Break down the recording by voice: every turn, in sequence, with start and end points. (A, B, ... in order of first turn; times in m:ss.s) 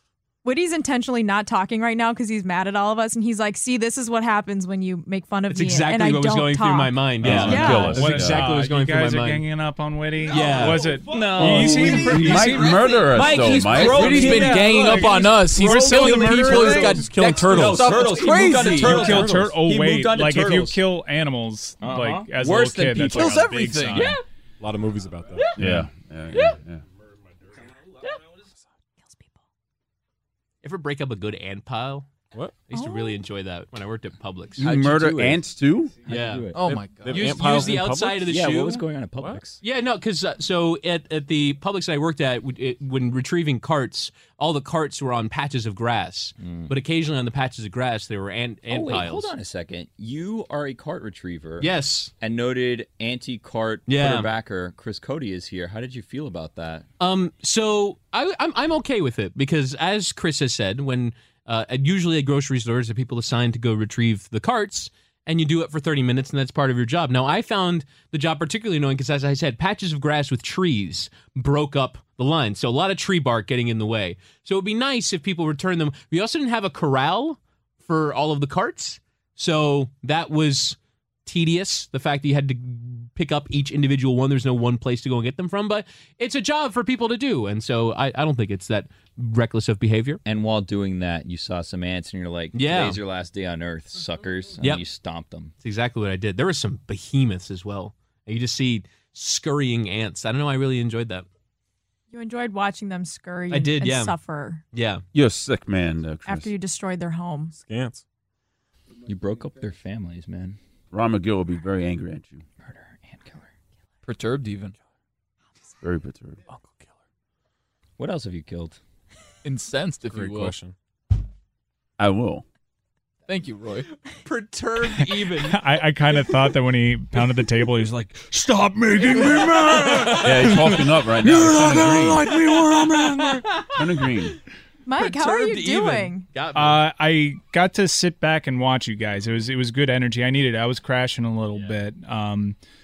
0:00.4-0:08.0 A
0:05.5-0:09.4 B
0:07.2-0:08.5 C
0:07.2-0:12.8 D
0:10.3-0:11.0 B
0:10.3-0:20.8 E
0:11.4-0:14.4 C
0:13.1-0:14.5 B
0:13.1-0:18.1 F
0:14.5-0:16.0 D
0:15.7-0:19.6 G
0:18.2-0:24.2 D
0:18.4-0:18.7 B
0:21.8-0:24.2 E
0:23.2-0:24.0 F
0:24.6-0:25.6 G
0:25.4-0:25.6 E
0:25.6-0:26.8 C
0:30.6-0:32.1 B
0:32.7-0:34.8 B
0:32.7-0:33.2 A
0:34.6-0:36.0 C
0:34.6-0:35.4 E
0:36.0-0:36.5 B
0:36.0-0:36.6 E
0:36.5-0:37.3 F
0:36.6-0:38.3 G
0:37.1-0:38.8 B
0:38.2-0:39.6 E
0:39.6-0:49.3 B
0:46.4-0:46.7 E
0:48.7-0:56.8 E
0:51.6-0:52.1 B
0:53.9-0:54.3 B
0:57.0-1:30.2 B
1:30.2-1:35.5 E
1:32.5-1:33.0 B
1:35.6-1:41.2 B
1:42.1-1:44.6 A
1:43.5-1:44.1 B
1:44.7-1:45.0 B
1:45.1-1:46.5 C
1:46.2-1:47.5 A
1:47.5-1:48.0 G
1:49.0-1:50.6 E
1:50.9-1:52.4 C
1:52.6-1:53.4 E
1:54.0-1:54.7 F
1:55.8-1:56.4 C
1:56.4-1:56.9 G
1:58.0-1:58.8 E
1:59.4-2:00.5 F
2:00.0-2:00.7 G
2:02.0-2:02.4 C
2:03.3-2:03.9 F
2:04.2-2:05.6 B
2:05.0-2:12.7 D
2:09.8-2:10.3 B
2:10.1-2:12.3 C
2:12.3-2:13.6 B
2:13.7-2:14.4 C
2:14.8-2:16.3 A
2:15.0-2:16.9 B
2:16.5-2:22.6 D